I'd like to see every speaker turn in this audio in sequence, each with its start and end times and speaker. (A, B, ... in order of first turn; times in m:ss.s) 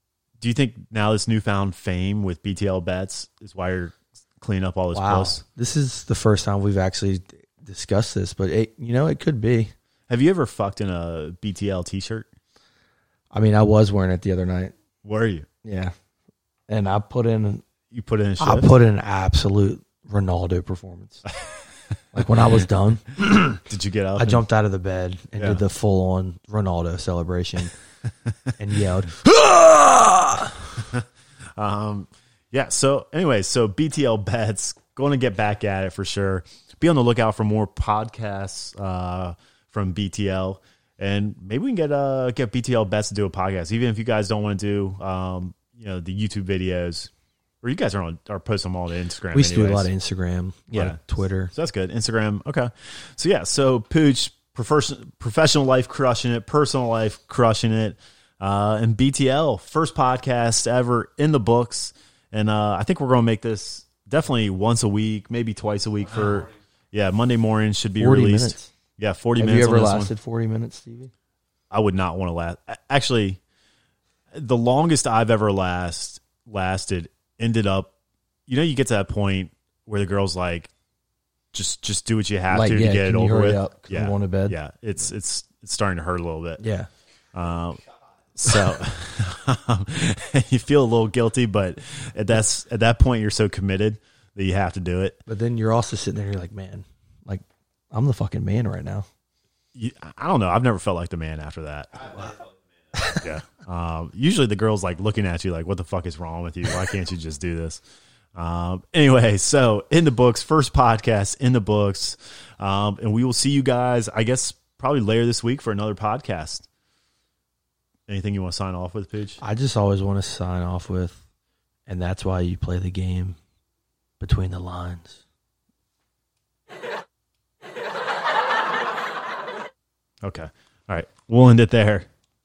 0:00.4-0:05.4 A
0:04.9-0:09.7 B
0:10.1-0:12.3 A
0:13.3-0:14.7 B
0:15.0-0:15.5 A
0:15.6-0:15.9 B
0:16.7-0:17.6 B
0:17.9-0:18.7 A
0:18.4-0:21.2 B
0:22.1-0:23.6 B
0:23.7-0:24.4 A
0:24.2-0:27.7 B
0:25.4-0:25.6 A
0:28.6-0:30.6 B
0:31.6-0:47.1 A
0:47.6-0:49.9 A
0:49.3-0:51.5 B
0:50.7-0:51.0 A
0:51.5-1:10.1 A
1:08.0-1:08.7 B
1:09.4-1:11.1 B
1:11.7-1:13.4 A
1:14.3-1:17.9 A
1:18.5-1:20.7 A
1:21.5-1:26.6 A
1:22.5-1:24.6 B
1:26.6-1:26.9 B
1:27.3-1:27.8 A
1:28.4-1:35.2 A
1:35.3-1:39.1 B
1:39.8-1:42.3 A
1:43.0-1:43.2 B
1:43.1-1:47.8 A
1:48.4-1:56.7 A
1:58.1-1:59.4 A
1:59.4-2:01.2 B
2:01.9-2:03.4 B
2:04.2-2:05.2 B
2:10.2-2:12.1 A